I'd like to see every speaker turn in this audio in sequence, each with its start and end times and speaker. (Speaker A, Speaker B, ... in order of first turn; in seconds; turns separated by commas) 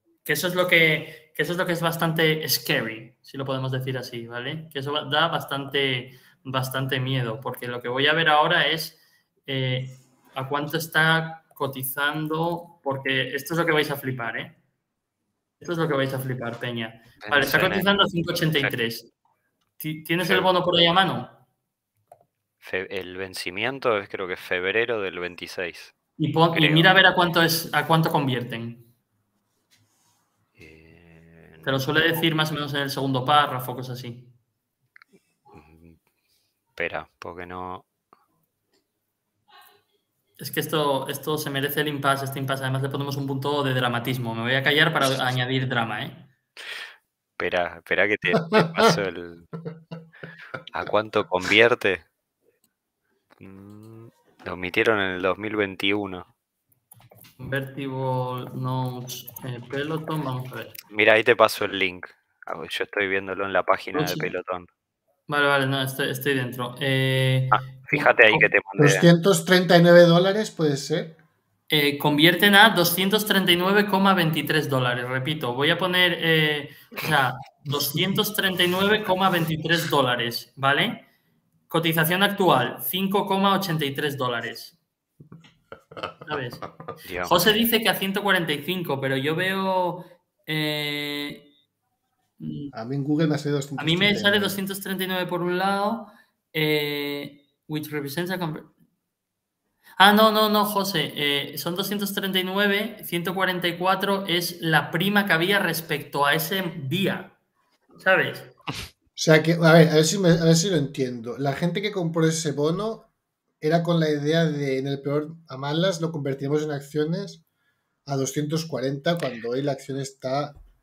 Speaker A: 0.2-14.6, Speaker A: 15.6-19.1, Speaker B: 17.2-18.0, Speaker A: 19.8-21.4, Speaker B: 20.2-20.5, Speaker B: 22.6-25.9, Speaker A: 26.2-28.9, Speaker B: 26.5-26.9, Speaker B: 30.6-31.9, Speaker A: 31.6-34.3, Speaker B: 35.5-36.0, Speaker B: 36.8-37.9, Speaker A: 40.4-46.3, Speaker B: 47.4-49.5, Speaker C: 48.5-48.9, Speaker B: 50.7-52.0, Speaker B: 53.4-56.3, Speaker A: 57.4-60.8, Speaker B: 60.9-64.7, Speaker A: 63.9-64.3, Speaker A: 65.3-68.5, Speaker B: 67.5-69.1, Speaker C: 68.8-71.2, Speaker A: 71.7-81.0, Speaker A: 81.7-84.8, Speaker A: 86.2-86.7, Speaker B: 87.0-87.5, Speaker A: 87.2-91.5, Speaker A: 92.4-92.7, Speaker C: 92.7-94.6, Speaker A: 93.8-98.7, Speaker A: 100.0-107.3, Speaker A: 108.0-108.5, Speaker C: 109.2-113.1, Speaker C: 113.6-117.4, Speaker C: 118.0-120.6